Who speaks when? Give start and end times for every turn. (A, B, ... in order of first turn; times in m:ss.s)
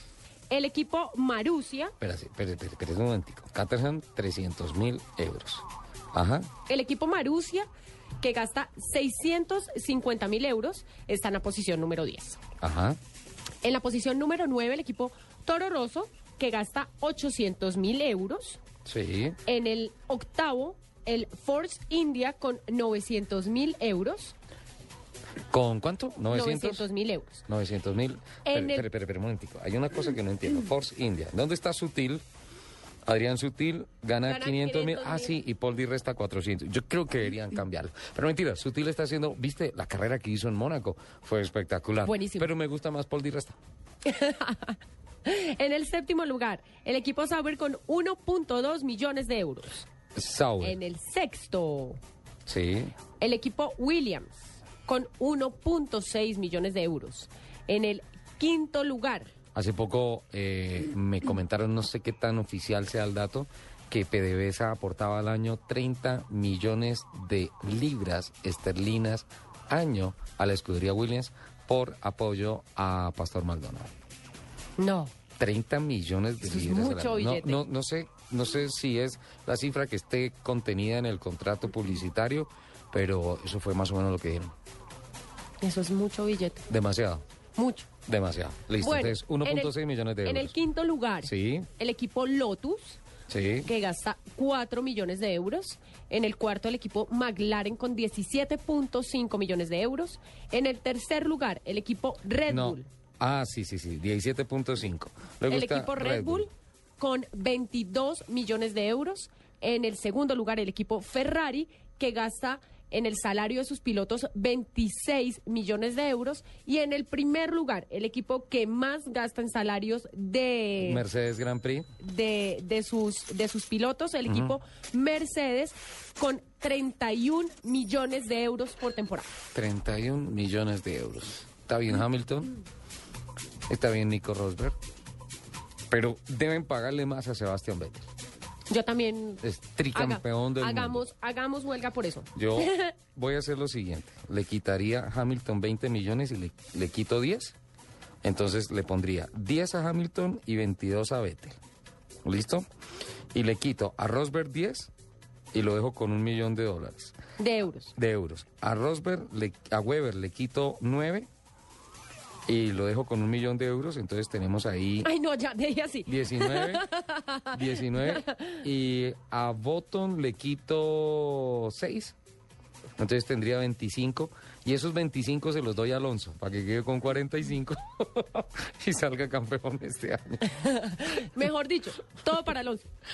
0:00.5-0:01.9 A
0:02.0-0:06.5 B
0:06.6-0:07.7 A
0:08.2-0:12.4 A
0:12.6-0:13.0 B
0:13.6-0:18.6 A
0:18.8-0:19.4 B
0:19.4-0:24.4 A
0:25.5-0:26.8 B
0:26.3-0:27.4 A
0:27.5-0:32.2 B
0:28.4-0:28.9 A
0:33.0-0:43.6 B
0:34.2-0:35.4 A
0:42.0-0:42.5 A
0:44.0-0:49.9 A
0:50.1-0:50.8 B
0:50.6-0:52.0 A
0:52.5-0:52.9 B
0:53.2-0:59.3 A
0:59.5-1:13.9 B
1:14.8-1:15.1 A
1:15.4-1:24.5 B
1:16.4-1:17.6 A
1:25.6-1:26.6 A
1:26.7-1:27.2 B
1:27.6-1:27.9 A
1:28.1-1:30.5 B
1:28.8-1:33.0 A
1:31.2-1:31.7 B
1:33.3-1:33.7 B
1:33.6-1:42.9 A
1:42.5-1:46.4 B
1:45.5-2:01.0 A
2:00.8-2:01.9 B
2:02.0-2:09.3 A
2:04.3-2:04.6 B
2:09.5-2:12.5 B
2:13.7-2:14.8 B
2:15.9-2:18.1 B
2:18.7-2:22.9 A
2:19.4-2:21.0 B
2:22.4-2:27.6 B
2:28.2-2:31.5 B
2:32.2-2:32.6 B
2:33.3-2:34.9 B
2:35.5-2:37.1 B
2:37.4-2:37.9 A
2:38.0-2:41.3 B
2:42.5-2:45.1 B
2:45.0-2:48.6 A
2:46.1-2:46.9 B
2:47.5-2:52.2 B
2:53.0-3:00.4 B
3:00.5-3:02.9 A